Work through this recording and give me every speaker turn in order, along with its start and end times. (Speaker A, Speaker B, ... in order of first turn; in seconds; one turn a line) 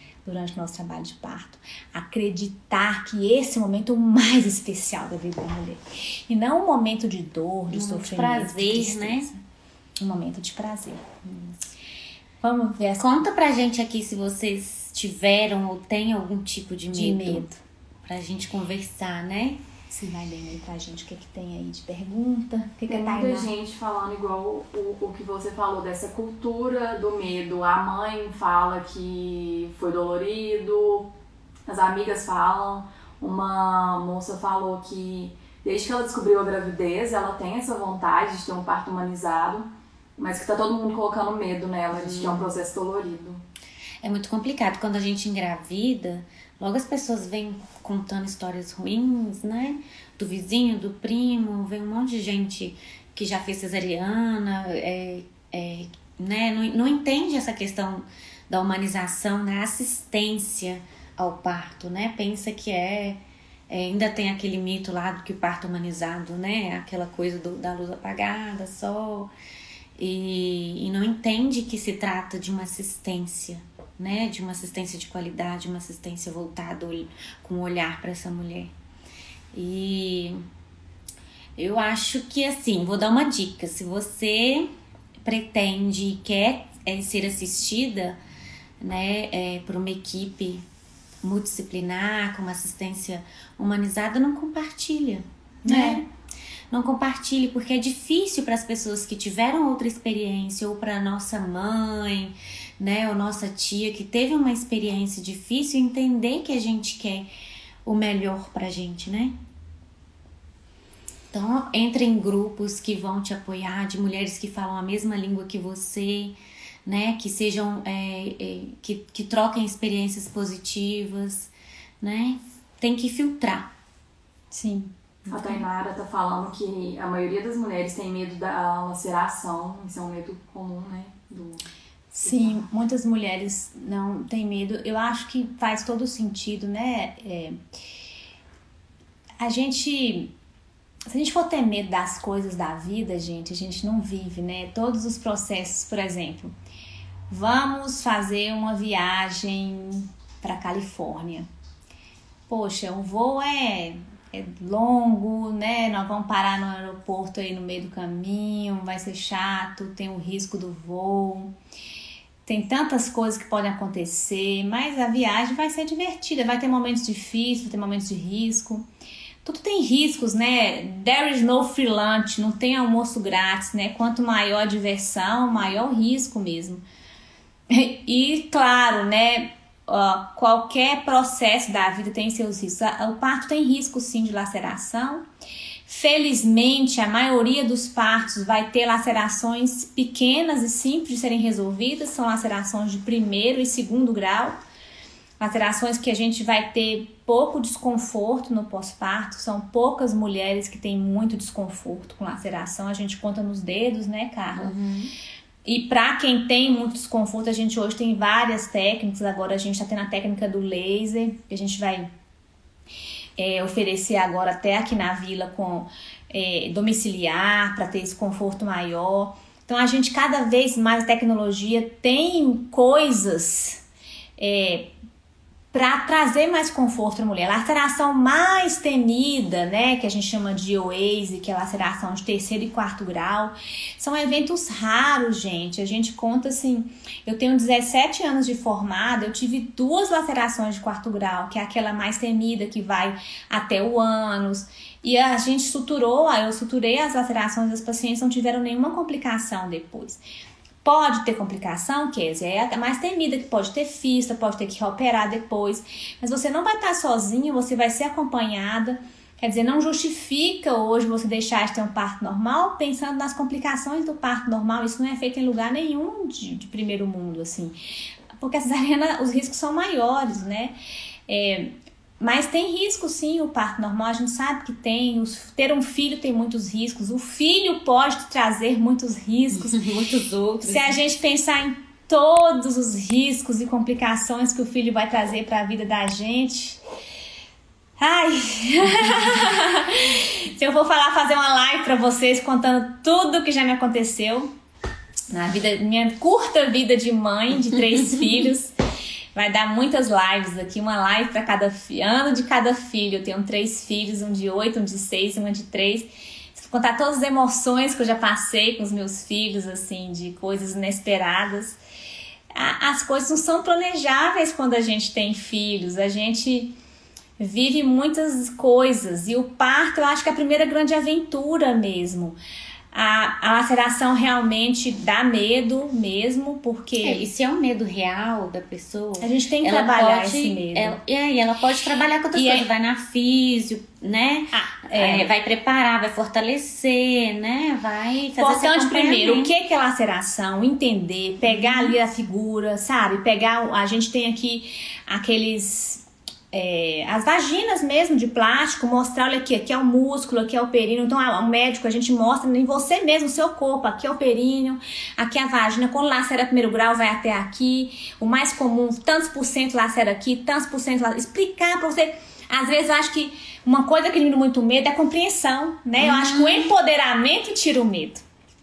Speaker A: 0.2-9.4
Speaker B: 7.7-9.3
Speaker A: 10.0-11.1
Speaker B: 11.2-11.7
Speaker A: 12.4-13.2
Speaker B: 13.0-17.5
Speaker A: 16.9-17.6
Speaker B: 18.0-19.6
Speaker A: 19.9-23.5
Speaker C: 22.9-31.1
Speaker C: 31.7-43.4
Speaker B: 42.0-42.5
Speaker B: 44.0-69.3
Speaker B: 70.0-78.7
Speaker B: 79.5-80.4
Speaker B: 81.6-84.7
Speaker B: 85.2-88.2
Speaker B: 88.8-90.7
Speaker B: 91.2-96.1
Speaker A: 95.7-96.0
Speaker B: 96.7-107.3
Speaker B: 107.8-109.3
Speaker B: 111.3-123.7
Speaker A: 124.5-125.7
Speaker C: 125.3-131.7
Speaker A: 132.1-137.6
Speaker C: 132.2-132.7
Speaker A: 139.4-140.3
Speaker A: 141.1-146.5
Speaker A: 147.3-151.5
Speaker A: 152.5-161.5
Speaker A: 162.5-168.8
Speaker A: 169.4-176.8
Speaker A: 177.7-185.2
Speaker A: 185.9-194.6
Speaker A: 195.4-204.7
Speaker B: 204.6-205.1
Speaker A: 205.7-212.1
Speaker A: 213.4-223.8
Speaker A: 224.4-224.9
Speaker A: 225.7-250.2
Speaker A: 250.8-267.8
Speaker A: 268.4-270.7
Speaker A: 271.3-279.8
Speaker B: 279.5-281.0
Speaker A: 280.6-286.8
Speaker A: 288.0-294.5
Speaker A: 295.3-298.8
Speaker A: 299.4-311.8
Speaker A: 312.6-316.8
Speaker A: 317.4-322.4
Speaker A: 322.9-327.3
Speaker B: 327.0-339.5
Speaker A: 329.2-331.0
Speaker A: 332.3-332.7
Speaker A: 334.5-335.3
Speaker A: 338.4-368.2
Speaker B: 341.4-341.9
Speaker B: 366.0-366.7